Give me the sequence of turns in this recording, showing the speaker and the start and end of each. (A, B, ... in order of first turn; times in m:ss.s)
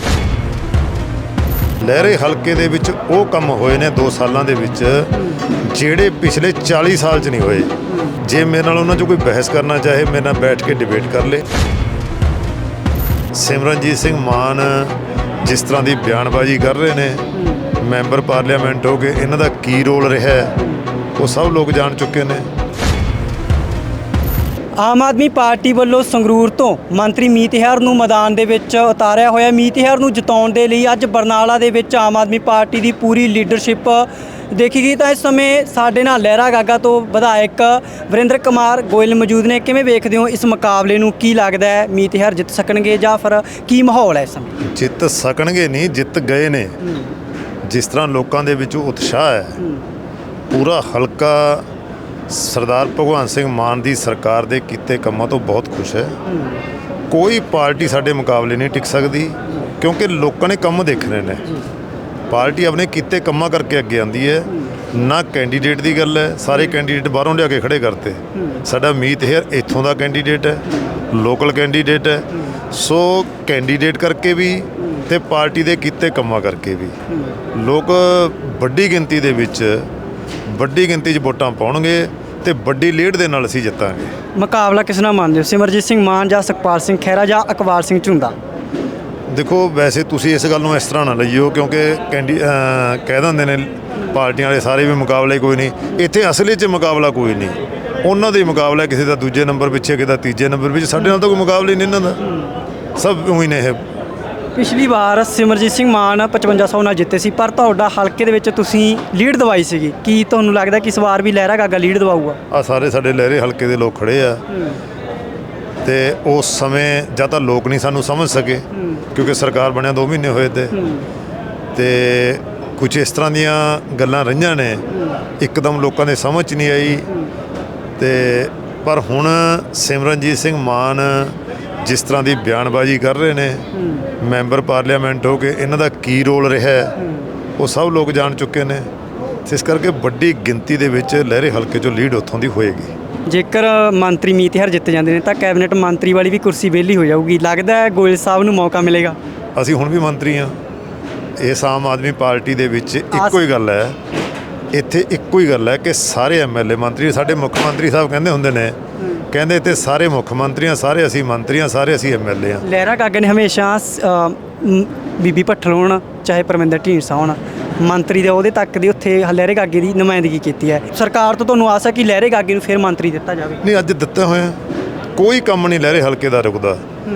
0:01.8-0:11.4 A
0:13.3-0:20.5 A
0:21.2-0:22.5 A
0:24.8-0:44.6 B
0:44.6-0:46.8 A
0:47.6-0:49.6 A
0:50.5-0:51.7 A
0:52.3-0:56.2 A
0:57.1-1:01.4 A
1:02.3-1:16.9 A
1:17.5-1:19.9 A
1:20.5-1:24.1 A
1:24.3-1:28.4 B
1:29.3-1:42.2 A
1:43.0-1:43.8 A
1:44.6-1:52.4 B
1:52.5-1:54.4 A
1:55.8-2:00.8 A
2:01.7-2:04.8 A
2:05.4-2:07.1 A
2:08.0-2:13.6 A
2:14.2-2:16.9 A
2:17.6-2:18.9 A
2:19.4-2:22.9 A
2:23.3-2:29.2 B
2:29.6-2:30.5 A
2:31.4-2:34.0 A
2:33.1-2:33.4 B
2:34.7-2:38.8 A
2:39.3-2:42.6 A
2:42.6-2:53.6 B
2:53.6-2:54.6 A
2:55.2-2:56.8 A